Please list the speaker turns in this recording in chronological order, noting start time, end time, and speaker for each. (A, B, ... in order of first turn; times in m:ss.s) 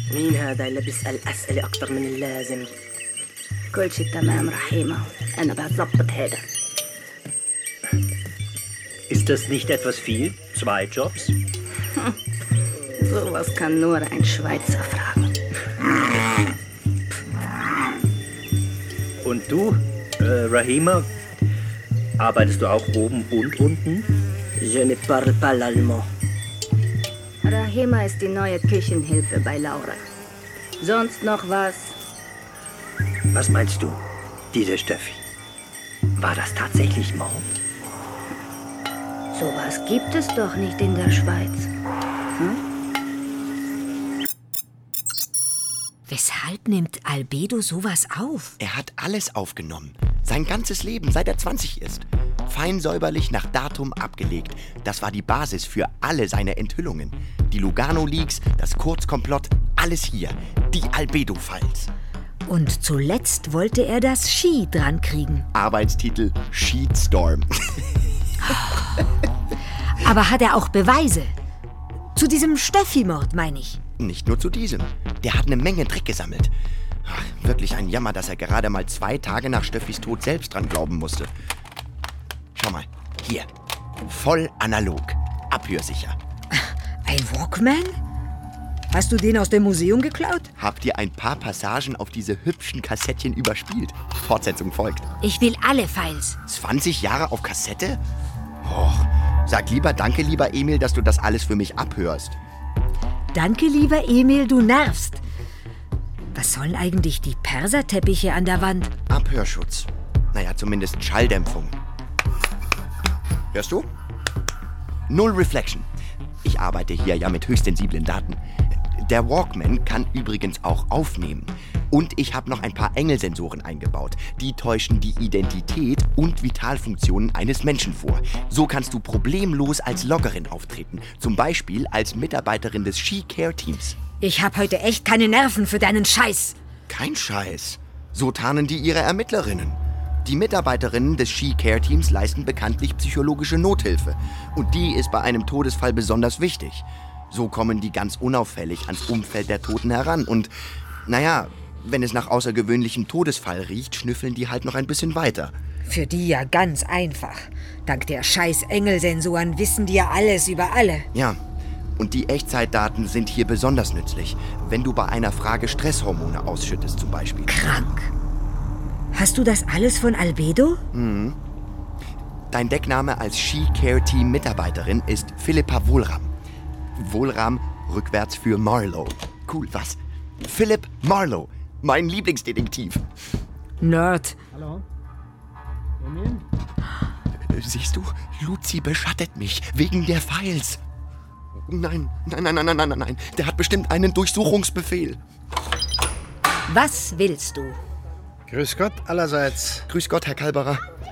0:00.1-0:02.7 A
0:03.7-0:06.4 B
0:09.1-0:11.4 C
0:13.0-0:15.3 B
0:19.2-0:21.1 C
0:22.2-0:24.1 C
0:24.6-0:26.1 A
0:27.4-0:30.0 B
0:30.8-0:32.0 B
0:33.3-0:34.0 C
0:34.5-0:35.2 C
0:36.2-0:37.5 C
0:39.3-0:41.7 B
0:46.1-0:48.6 D
0:48.6-1:01.9 E
1:02.5-1:05.5 D
1:05.5-1:07.8 E
1:10.0-1:11.3 D
1:12.2-1:13.8 D
1:14.0-1:16.5 E
1:17.0-1:21.3 E
1:22.6-1:23.5 E
1:24.0-1:26.2 E
1:26.5-1:28.0 D
1:28.9-1:30.5 D
1:30.6-1:35.1 E
1:35.2-1:36.4 D
1:36.5-1:38.0 E
1:38.6-1:42.4 E
1:43.3-1:45.2 D
1:46.3-1:48.9 D
1:49.1-1:51.8 E
1:53.5-1:53.9 E
1:55.1-1:55.9 E
1:56.4-2:14.0 E
2:14.2-2:16.6 D
2:16.9-2:30.5 E
2:31.0-2:35.6 E
2:35.9-2:41.1 D
2:41.1-2:41.4 E
2:42.0-2:47.5 E
2:47.5-2:48.1 D
2:49.1-2:50.8 D
2:50.9-2:51.4 E
2:52.5-2:56.3 E
2:57.0-3:03.0 E
3:03.8-3:04.4 D
3:04.6-3:04.8 F
3:06.0-3:06.4 F
3:07.5-3:10.8 E
3:11.7-3:15.2 E
3:16.7-3:17.8 D
3:18.5-3:19.9 F
3:19.9-3:20.8 E